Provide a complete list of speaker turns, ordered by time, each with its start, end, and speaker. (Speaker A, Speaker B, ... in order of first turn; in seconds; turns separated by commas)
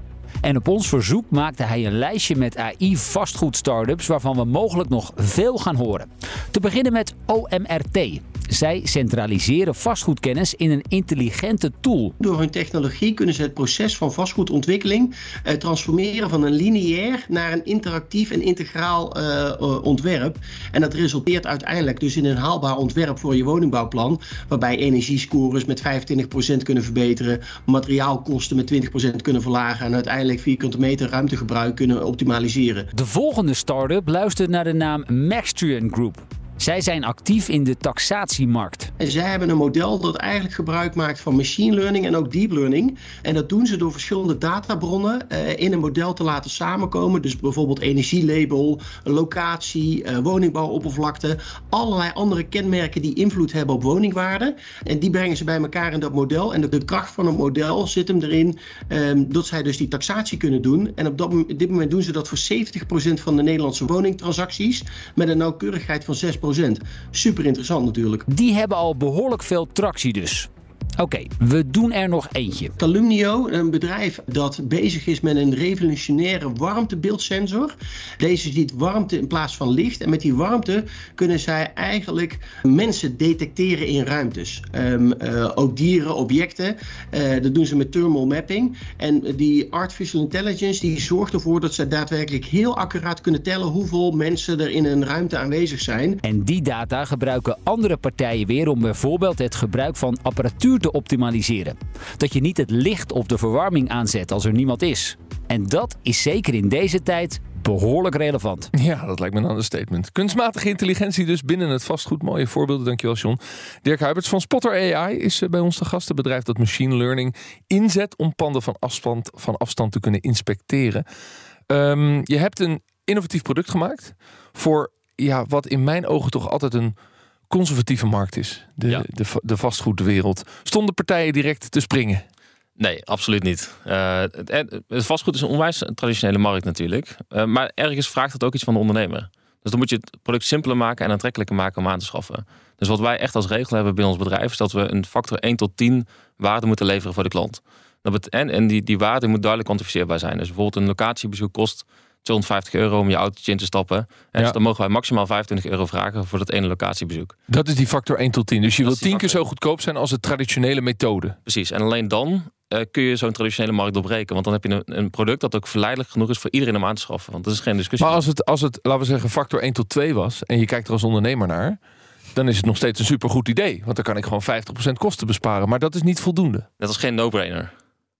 Speaker A: 0.4-12.1, Speaker B: 12.2-32.9, Speaker A: 32.9-38.9, Speaker B: 39.0-68.2, Speaker A: 68.3-72.7, Speaker B: 72.8-96.2, Speaker A: 96.2-108.7, Speaker C: 108.7-121.0, Speaker C: 121.7-127.0, Speaker C: 127.5-132.2, Speaker D: 132.8-157.3, Speaker C: 157.5-161.4, Speaker D: 158.8-159.4, Speaker D: 161.4-168.2, Speaker C: 168.0-171.8, Speaker C: 172.3-176.7, Speaker D: 176.8-177.7